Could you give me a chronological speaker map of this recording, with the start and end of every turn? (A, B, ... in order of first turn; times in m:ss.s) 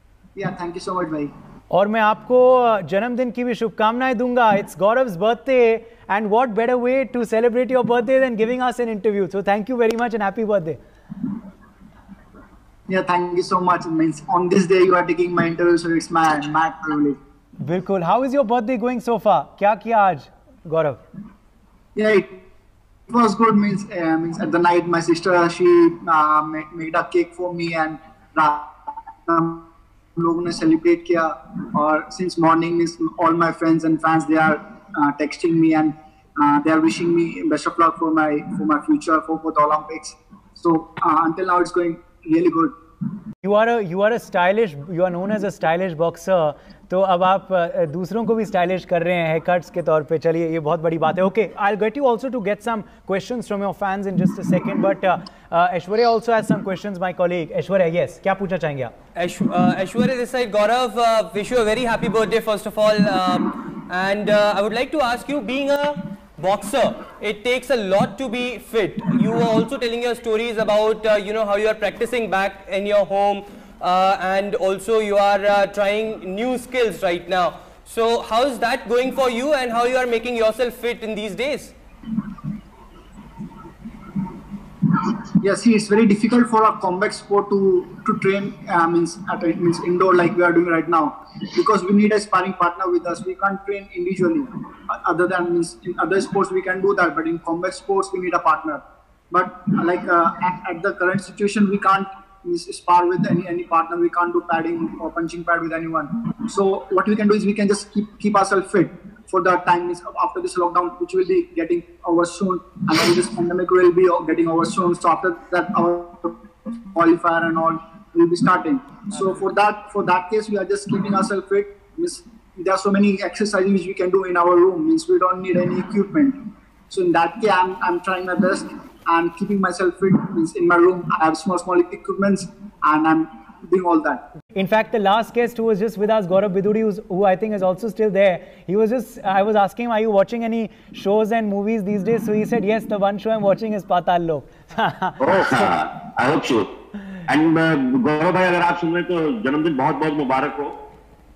0:00.3-0:01.3 A
0:01.7-0:10.8 B
0:12.9-0:17.2 A
0:17.6-0:21.0 B
0:21.9-0:22.4 A
0:23.1-0:42.7 A
0:43.4-0:58.9 B
0:59.2-1:21.7 C
1:24.9-2:06.4 A
2:06.9-2:14.2 A
2:14.6-2:25.2 B
2:25.2-2:26.7 D
2:27.3-2:30.8 D